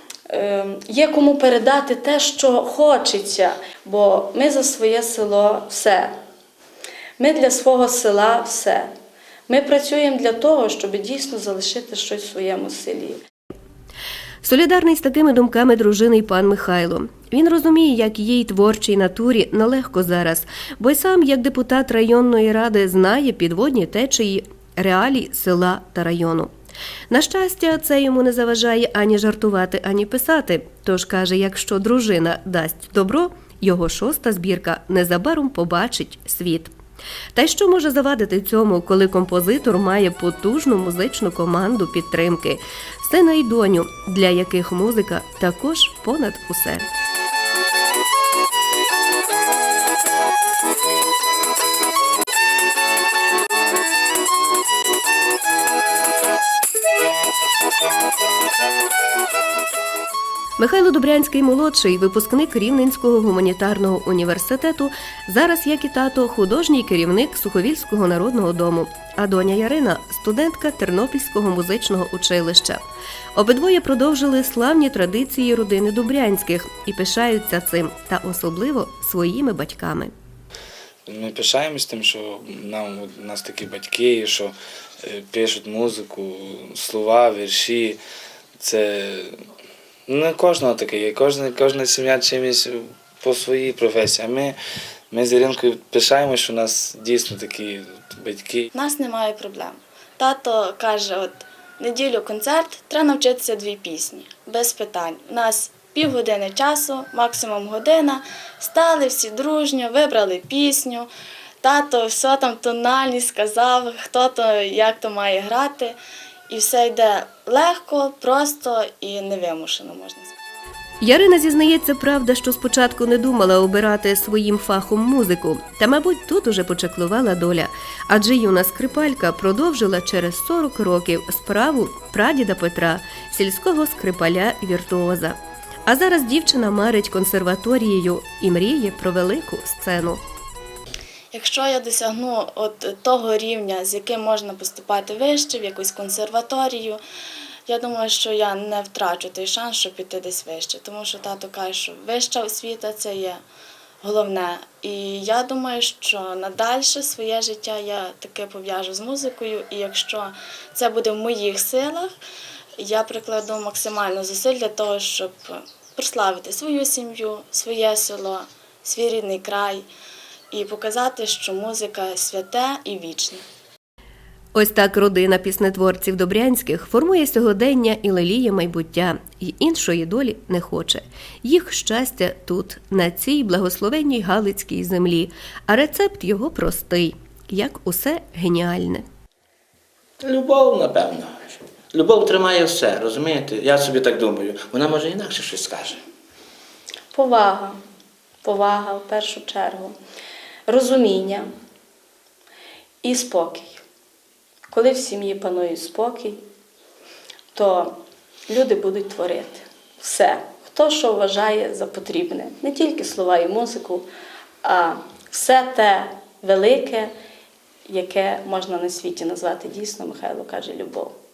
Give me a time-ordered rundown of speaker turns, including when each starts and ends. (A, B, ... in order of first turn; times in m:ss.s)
0:00.3-0:06.1 A
0:07.2-0:08.9 A
0:09.5-0:13.2 A
0:14.4-0:26.5 B
0:27.1-0:36.7 B
0:37.3-0:46.9 B
1:00.6-1:12.8 B
1:13.4-1:20.1 B
1:21.1-1:28.0 C
1:28.6-1:29.3 C
1:30.1-1:34.6 C
1:35.1-1:38.7 C
1:38.7-1:51.1 D
1:51.6-1:56.0 D
1:56.5-2:00.3 D
2:01.0-2:20.2 B
2:21.3-2:27.0 D
2:27.7-2:33.4 D
2:34.0-2:42.1 D
2:42.8-2:49.9 D
2:50.5-2:53.4 D
2:54.5-3:09.0 B
3:10.2-3:16.0 E
3:17.1-3:17.8 A
3:18.4-3:19.9 A
3:20.7-3:21.5 A
3:23.0-3:23.8 A
3:24.7-3:26.4 A
3:27.5-3:34.1 A
3:34.6-3:37.1 A
3:37.9-3:41.1 A